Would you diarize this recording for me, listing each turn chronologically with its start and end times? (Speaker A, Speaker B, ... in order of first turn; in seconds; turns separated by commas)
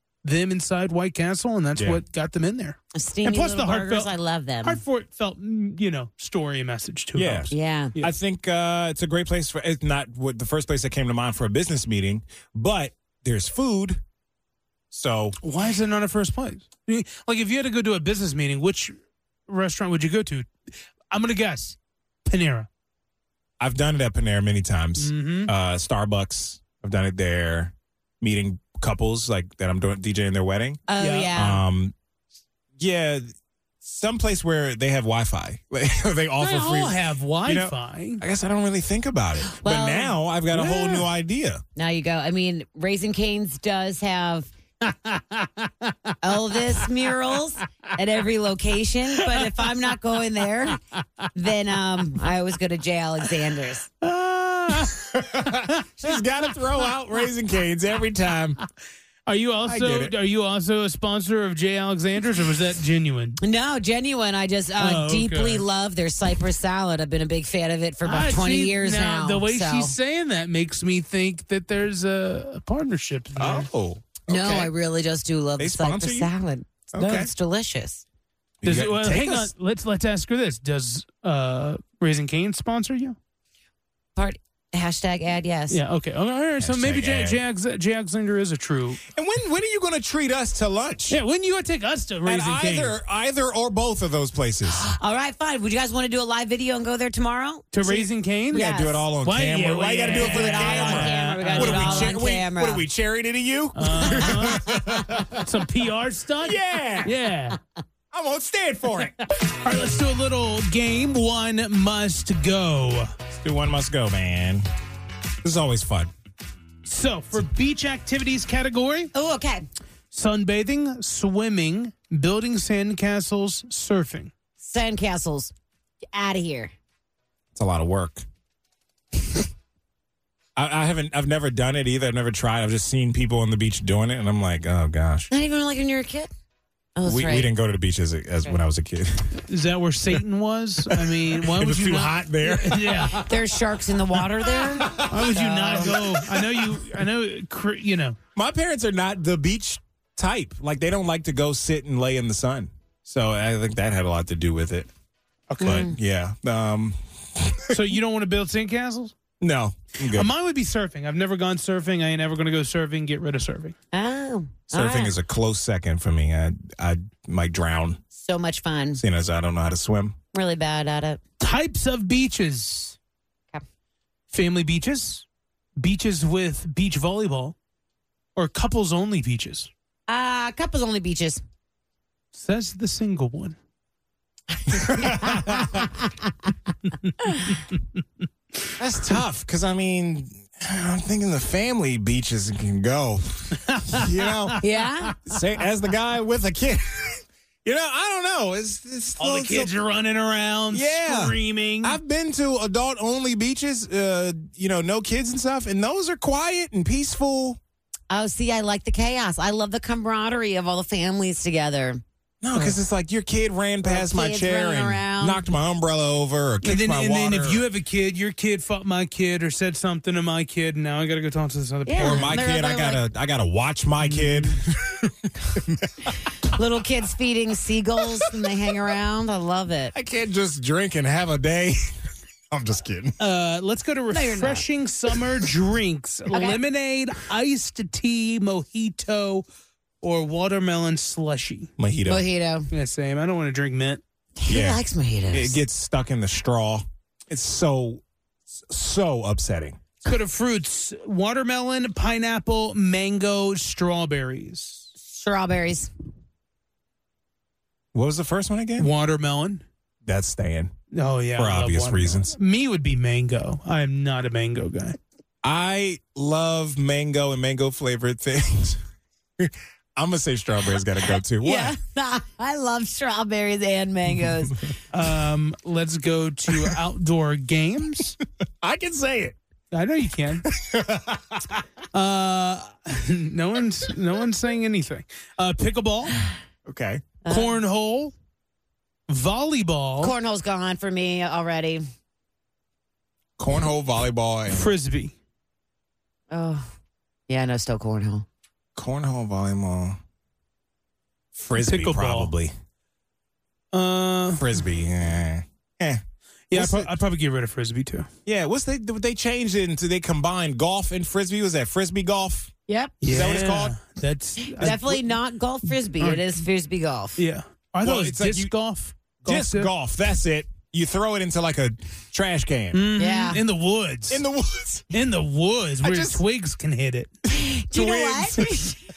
Speaker A: 0.2-4.1, Speaker B: 1.8-2.0, Speaker C: 2.9-4.8, Speaker A: 4.6-8.1, Speaker B: 7.2-14.0, Speaker C: 7.5-8.0, Speaker B: 14.9-15.4, Speaker A: 15.4-19.0, Speaker A: 19.5-20.5, Speaker A: 21.1-22.7, Speaker B: 23.6-31.9, Speaker A: 25.0-25.5, Speaker C: 30.9-31.6, Speaker A: 31.0-31.3, Speaker B: 32.8-33.3, Speaker B: 33.8-41.6, Speaker A: 36.4-38.2, Speaker C: 39.6-40.1, Speaker A: 40.5-41.1, Speaker C: 41.8-44.5, Speaker A: 44.9-46.2, Speaker C: 46.2-50.8, Speaker C: 51.3-53.9, Speaker A: 54.0-55.8, Speaker B: 54.8-58.6, Speaker A: 59.3-63.4, Speaker B: 59.6-60.1, Speaker C: 63.4-70.0, Speaker A: 64.8-65.7, Speaker A: 68.0-73.7, Speaker B: 73.4-74.7, Speaker C: 74.3-78.0, Speaker B: 75.6-76.3, Speaker B: 76.9-77.3, Speaker B: 78.6-79.5, Speaker A: 78.6-83.2, Speaker C: 84.2-85.8, Speaker A: 85.7-89.0, Speaker B: 86.6-87.4, Speaker B: 89.1-91.2, Speaker A: 91.1-93.0, Speaker B: 92.2-94.8, Speaker C: 94.7-99.0, Speaker A: 97.7-98.6, Speaker B: 98.5-105.4, Speaker A: 99.2-102.2, Speaker C: 100.1-102.8, Speaker A: 103.8-104.6, Speaker C: 104.1-104.4, Speaker A: 105.4-107.6, Speaker B: 106.4-107.1, Speaker B: 108.1-109.2, Speaker A: 109.6-113.1, Speaker B: 113.3-114.7, Speaker B: 115.4-116.1, Speaker A: 116.8-119.1, Speaker C: 119.1-119.7, Speaker A: 120.1-124.3, Speaker C: 124.6-125.5, Speaker C: 126.1-126.7, Speaker B: 127.5-128.2, Speaker B: 130.6-135.3, Speaker C: 135.3-136.3, Speaker C: 137.0-137.5, Speaker B: 137.1-139.4, Speaker A: 139.5-143.2, Speaker B: 140.9-143.4, Speaker C: 143.2-146.0, Speaker B: 144.2-146.8, Speaker A: 145.0-148.2, Speaker B: 148.3-154.9, Speaker A: 155.5-155.8, Speaker B: 155.6-157.9, Speaker C: 155.6-156.0, Speaker A: 157.7-159.2, Speaker B: 159.4-160.3, Speaker A: 160.1-163.8, Speaker C: 163.9-165.2, Speaker B: 164.7-168.0, Speaker C: 168.1-169.0, Speaker B: 169.0-170.2, Speaker C: 170.3-171.2, Speaker A: 171.4-173.0, Speaker A: 174.3-175.3, Speaker A: 175.8-177.6, Speaker A: 178.4-179.7, Speaker C: 180.1-181.4, Speaker A: 182.3-183.6, Speaker C: 184.6-186.5, Speaker B: 184.9-185.7, Speaker C: 187.2-187.6, Speaker B: 188.8-194.6, Speaker A: 193.6-194.6, Speaker C: 194.6-195.2, Speaker B: 195.2-199.8, Speaker A: 199.2-202.0, Speaker B: 200.7-207.6, Speaker C: 208.1-212.0, Speaker B: 212.4-217.7, Speaker C: 213.8-215.4, Speaker A: 216.6-222.4, Speaker C: 221.9-223.0, Speaker B: 222.0-226.1, Speaker A: 224.0-224.6, Speaker C: 226.5-229.9, Speaker B: 229.9-231.8, Speaker B: 232.5-233.2, Speaker A: 233.2-239.4, Speaker C: 234.1-234.6, Speaker C: 236.3-236.6, Speaker A: 240.0-241.7, Speaker B: 241.8-242.2, Speaker C: 242.1-242.7, Speaker A: 242.7-244.0, Speaker C: 244.4-245.6, Speaker B: 244.5-249.8, Speaker A: 250.1-254.9, Speaker C: 255.0-255.9, Speaker B: 257.9-258.9, Speaker A: 258.8-259.6, Speaker B: 260.1-260.7, Speaker A: 260.9-265.0, Speaker B: 261.4-262.4, Speaker B: 265.4-268.8, Speaker B: 269.4-271.8, Speaker C: 271.4-274.6, Speaker A: 274.9-278.2, Speaker B: 278.6-279.4, Speaker A: 279.7-280.5, Speaker B: 280.5-281.6, Speaker A: 281.9-286.2, Speaker B: 286.7-287.1, Speaker C: 287.3-287.6, Speaker A: 287.3-288.1, Speaker A: 289.1-290.1, Speaker C: 290.0-291.9, Speaker B: 293.4-294.7, Speaker A: 294.5-295.2, Speaker C: 296.3-296.7, Speaker C: 297.3-298.2, Speaker B: 298.8-300.0, Speaker B: 301.3-302.5, Speaker A: 301.6-302.3, Speaker A: 303.7-304.4, Speaker B: 304.4-306.0, Speaker A: 306.5-308.1, Speaker B: 306.5-306.9, Speaker B: 308.3-312.5, Speaker C: 312.7-313.0, Speaker A: 313.0-315.1, Speaker B: 313.0-313.8, Speaker C: 314.6-317.2, Speaker A: 315.7-316.3, Speaker A: 317.2-319.7, Speaker B: 317.8-318.5, Speaker B: 319.2-322.8, Speaker A: 322.7-324.2, Speaker C: 323.0-323.4, Speaker B: 324.1-324.9, Speaker A: 324.9-327.1, Speaker B: 325.8-326.2, Speaker C: 327.3-328.8, Speaker B: 327.7-328.8